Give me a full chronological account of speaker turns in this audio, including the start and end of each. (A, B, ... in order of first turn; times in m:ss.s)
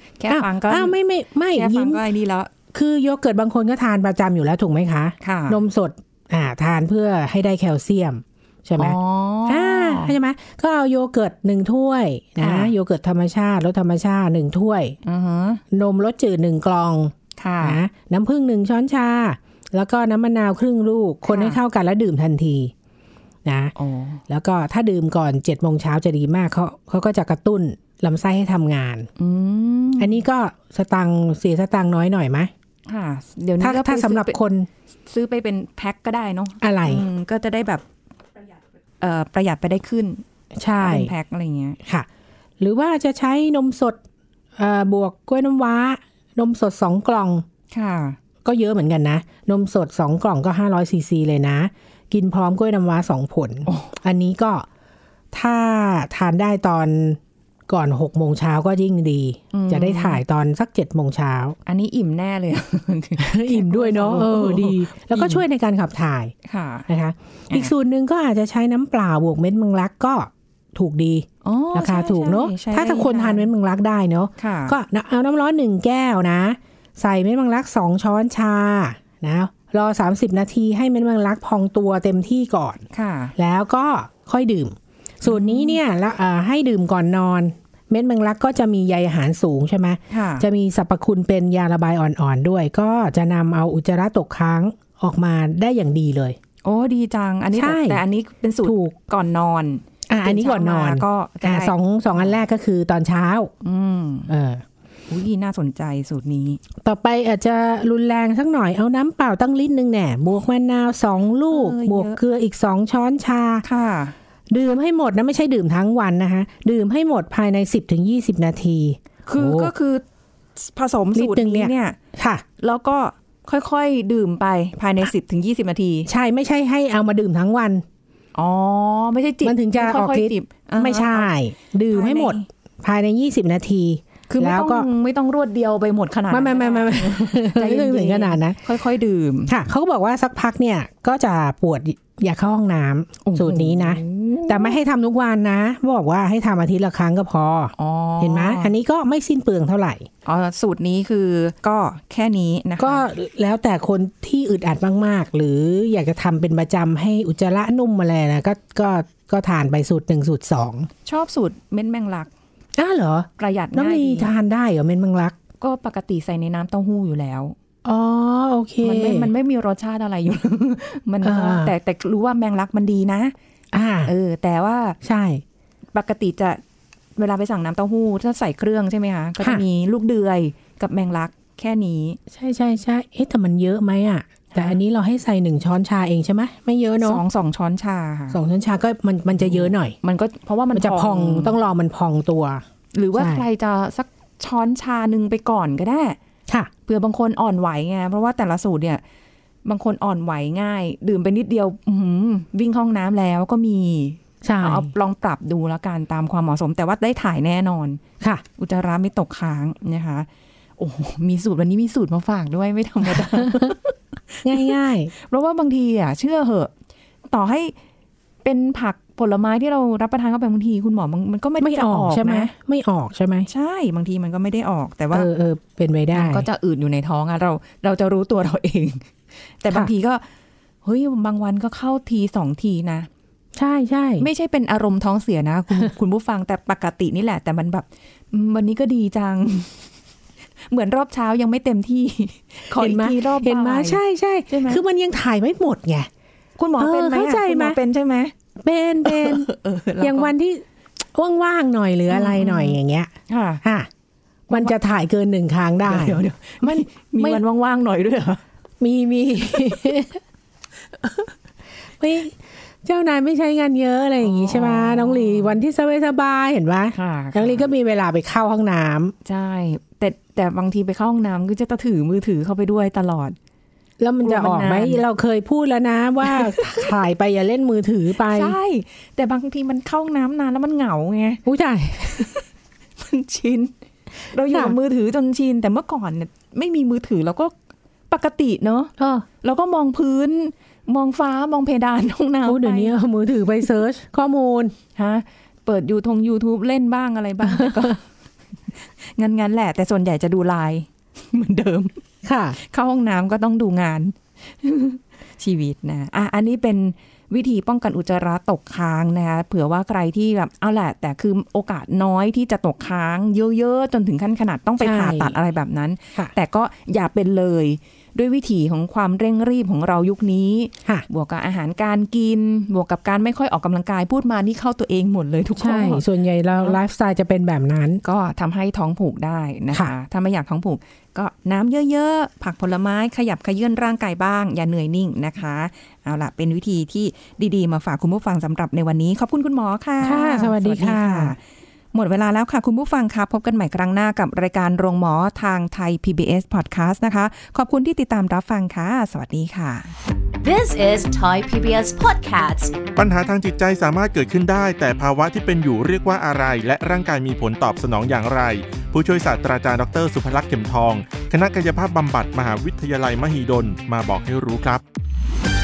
0:00.2-0:01.0 A
0:00.3-0:02.0 B
0:01.5-0:02.5 A
0:02.7-0:15.0 B
0:05.2-0:05.6 A
0:08.8-0:10.2 A
0:12.4-0:12.7 A
0:15.0-0:15.6 A
0:15.7-0:22.7 B
0:17.4-0:17.8 A
0:21.3-0:21.6 A
0:23.4-0:23.7 B
0:23.8-0:24.2 A
0:24.3-0:29.1 B
0:29.2-0:30.2 A
0:30.0-0:32.5 B
0:32.9-0:34.4 A
0:33.6-0:34.7 B
0:35.1-0:37.8 A
0:36.6-0:37.0 B
0:39.0-0:40.2 A
0:40.5-0:41.1 B
0:40.8-0:41.8 A
0:42.6-0:44.0 B
0:44.6-0:47.4 B
0:47.7-0:48.2 A
0:48.4-0:54.6 B
0:53.6-0:53.9 A
0:55.3-1:01.6 B
0:59.5-1:00.2 A
1:01.6-1:05.4 A
1:03.2-1:06.3 B
1:06.4-1:06.9 A
1:06.9-1:22.8 B
1:11.4-1:13.5 A
1:14.4-1:14.8 A
1:22.9-1:23.3 A
1:23.4-1:36.4 B
1:25.2-1:25.8 A
1:30.1-1:30.4 A
1:36.6-1:42.4 A
1:37.5-1:38.0 B
1:38.6-1:38.9 B
1:40.1-1:43.5 B
1:43.6-1:44.3 A
1:44.3-1:44.6 B
1:45.1-1:46.6 A
1:46.8-1:53.6 B
1:51.5-1:52.2 A
1:53.6-1:54.1 A
1:54.5-1:59.7 B
1:59.2-2:00.0 A
2:00.6-2:02.0 A
2:01.1-2:02.4 B
2:02.6-2:06.1 A
2:06.1-2:07.8 B
2:08.3-2:11.3 A
2:09.4-2:14.9 B
2:11.9-2:12.4 A
2:14.3-2:19.5 A
2:16.3-2:18.6 B
2:19.5-2:30.1 B
2:23.2-2:24.8 A
2:27.8-2:28.7 A
2:30.2-2:33.0 A
2:32.8-2:40.9 B
2:41.0-2:42.3 A
2:42.8-2:45.4 B
2:43.4-2:44.3 A
2:45.6-2:47.5 A
2:47.8-2:49.3 B
2:48.8-2:53.3 A
2:51.2-2:51.7 B
2:53.7-2:54.1 B
2:54.0-2:55.0 A
2:55.0-2:55.4 B
2:55.9-2:56.6 A
2:57.2-3:02.2 A
3:02.3-3:07.2 B
3:04.5-3:04.8 A
3:07.0-3:08.4 A
3:08.3-3:10.0 B
3:09.4-3:11.6 A
3:10.7-3:13.4 B
3:12.9-3:16.2 A
3:16.8-3:19.0 A
3:19.6-3:28.0 A
3:24.4-3:24.9 B
3:28.6-3:30.3 A
3:30.8-3:36.7 A
3:33.4-3:33.7 B
3:34.4-3:35.1 B
3:37.3-3:37.7 A
3:38.4-3:42.5 A
3:41.6-3:43.5 B
3:43.5-3:45.3 A
3:45.1-3:46.4 B
3:46.1-3:50.2 A
3:50.8-3:53.1 A
3:53.5-3:54.3 B
3:54.2-3:59.8 A
4:00.7-4:04.8 A
4:02.7-4:06.1 B
4:06.6-4:08.3 A
4:06.8-4:07.8 B
4:08.6-4:13.1 B
4:09.0-4:10.3 A
4:12.1-4:13.6 A
4:13.6-4:13.9 B
4:14.5-4:17.4 B
4:14.5-4:14.7 A
4:15.8-4:18.4 A
4:18.8-4:20.2 B
4:22.0-4:29.1 B
4:24.2-4:25.6 A
4:26.9-4:27.7 A
4:29.2-4:33.4 A
4:34.0-4:38.5 B
4:34.2-4:35.0 A
4:36.2-4:36.9 A
4:38.2-4:41.4 A
4:41.4-4:42.4 B
4:43.0-4:43.7 A
4:44.2-4:47.5 A
4:44.5-4:44.8 B
4:48.1-4:52.9 A
4:49.0-4:49.2 B
4:52.4-4:54.7 B
4:55.0-4:58.0 A
4:58.8-5:02.0 A
5:02.2-5:02.6 B
5:02.6-5:26.8 A
5:14.8-5:15.4 B
5:25.6-5:28.0 B
5:28.0-5:41.4 A
5:40.0-5:41.3 B
5:41.9-5:49.9 A
5:50.4-5:52.8 C
5:53.0-6:04.8 D